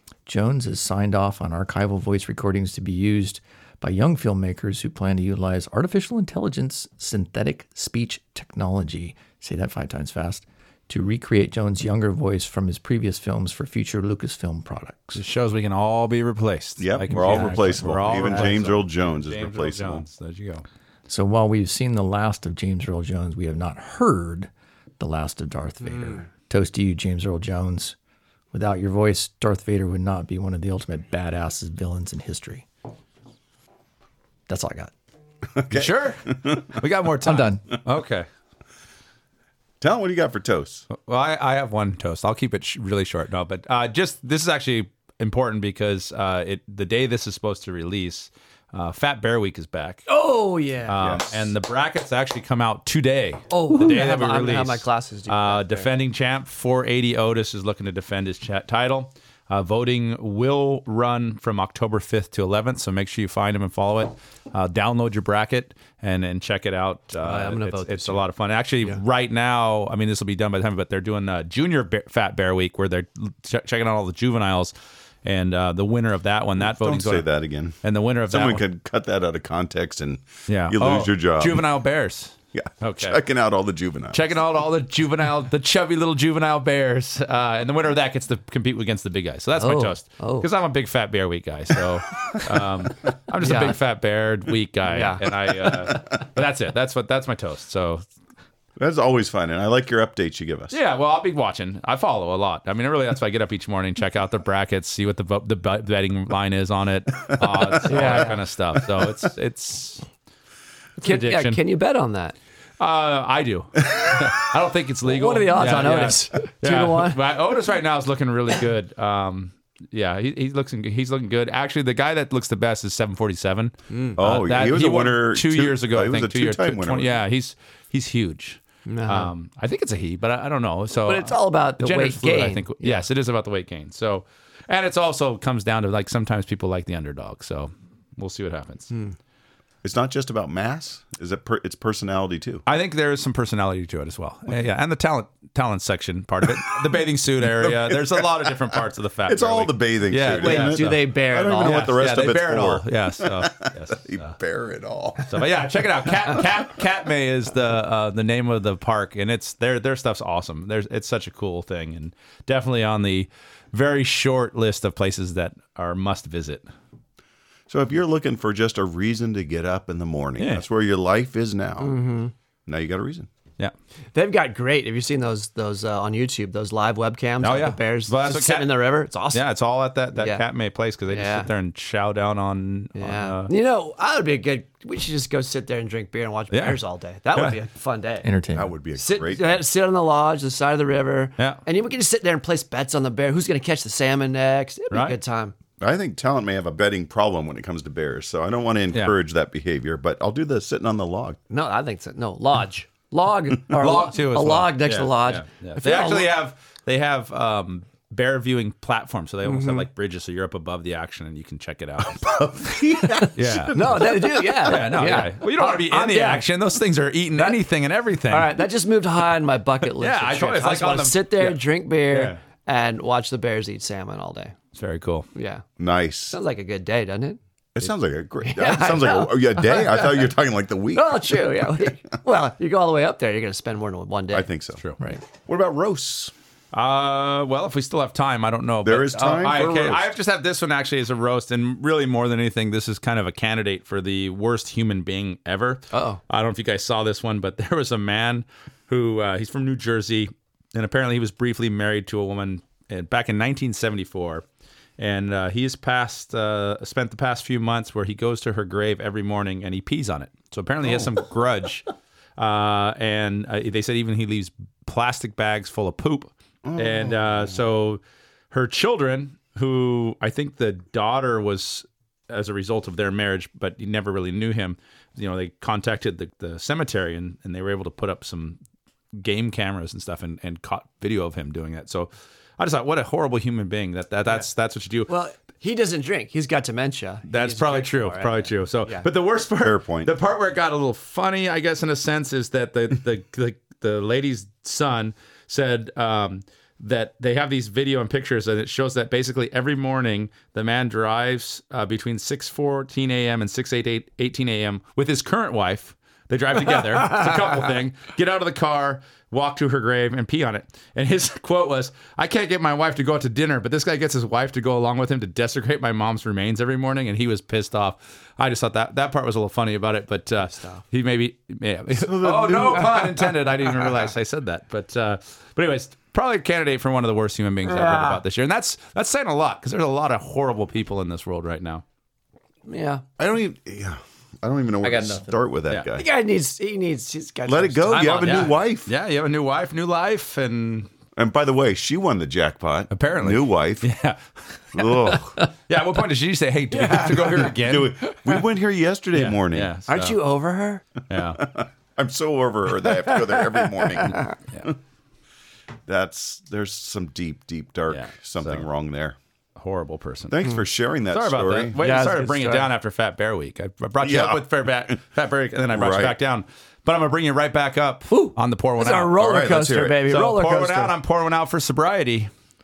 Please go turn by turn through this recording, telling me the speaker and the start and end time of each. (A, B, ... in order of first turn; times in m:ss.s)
0:00.2-0:15.2 A
0:15.2-0:20.6 B
0:16.8-0:20.0 C
0:17.1-0:18.5 A
0:21.1-0:28.0 A
0:28.5-0:32.7 A
0:34.5-0:34.9 A
0:35.5-0:36.8 C
0:35.7-0:38.3 B
0:37.2-0:37.6 A
0:39.8-0:40.9 C
0:40.9-0:50.0 B
0:50.1-0:51.2 D
0:50.9-1:14.7 B
0:51.0-0:51.5 C
0:53.5-0:55.9 D
1:07.2-1:08.2 D
1:15.2-1:17.3 B
1:16.6-1:17.8 C
1:17.8-1:18.6 B
1:18.3-1:21.6 C
1:20.5-1:23.2 B
1:22.5-1:24.2 C
1:24.1-1:38.0 B
1:29.6-1:30.5 D
1:33.4-1:33.8 D
1:34.9-1:35.2 D
1:38.8-1:40.8 C
1:40.7-1:50.0 B
1:47.6-1:48.2 C
1:47.8-1:48.4 D
1:51.0-1:52.3 D
1:51.0-1:51.6 B
1:52.8-2:18.9 B
1:55.0-1:57.2 D
2:03.9-2:04.2 D
2:04.2-2:07.2 C
2:08.9-2:09.3 D
2:11.0-2:13.0 D
2:19.8-2:22.6 C
2:22.6-2:34.3 B
2:27.4-2:28.5 C
2:29.3-2:35.4 C
2:30.3-2:32.0 D
2:35.2-2:46.6 B
2:47.7-2:52.0 C
2:50.4-2:50.6 B
2:51.8-2:52.3 D
2:52.7-2:53.3 C
2:54.1-2:59.4 D
2:57.4-3:03.5 B
3:00.1-3:00.4 D
3:01.1-3:01.5 D
3:02.9-3:08.3 D
3:06.5-3:06.8 B
3:08.2-3:08.7 A
3:08.5-3:09.6 C
3:08.9-3:15.5 D
3:14.9-3:15.2 B
3:15.8-3:21.4 C
3:21.5-3:26.3 D
3:23.7-3:38.6 B
3:29.4-3:29.8 D
3:32.1-3:34.6 C
3:33.1-3:36.4 D
3:37.4-3:37.6 D
3:38.3-3:44.6 D
3:40.0-3:42.4 B
3:44.7-3:45.3 B
3:45.3-3:45.6 D
3:45.8-3:46.4 C
3:46.3-3:47.4 D
3:47.8-3:51.8 C
3:48.4-3:50.3 D
3:50.9-3:54.5 D
3:54.3-3:54.8 C
3:55.4-3:56.3 C
3:56.7-4:14.4 B
3:58.8-4:00.0 C
4:05.9-4:06.2 D
4:15.0-4:38.6 B
4:26.6-4:27.6 C
4:39.1-4:45.1 B
4:45.1-4:49.1 D
4:47.3-5:31.8 B
4:49.6-4:50.1 C
5:20.4-5:20.8 D
5:21.9-5:23.3 C
5:27.6-5:28.2 D
5:32.6-5:33.0 D
5:33.2-5:36.1 C
5:34.8-5:35.4 A
5:35.9-5:38.6 D
5:37.4-5:38.9 C
5:37.9-5:40.9 B
5:41.1-5:43.9 C
5:42.9-5:48.0 B
5:44.7-5:45.4 C
5:46.7-5:47.5 D
5:47.4-5:49.7 C
5:49.1-5:50.2 B
5:49.9-5:50.8 D
5:51.1-5:51.4 B
5:51.3-5:54.7 C
5:53.0-5:54.3 D
5:55.8-5:59.2 C
5:57.9-5:58.7 B
5:59.6-6:00.4 B
6:00.3-6:01.8 C
6:01.1-6:09.2 B
6:01.8-6:02.7 D
6:04.0-6:05.0 C
6:05.7-6:06.1 C
6:08.1-6:10.9 D
6:09.1-6:10.0 C
6:10.1-6:12.3 B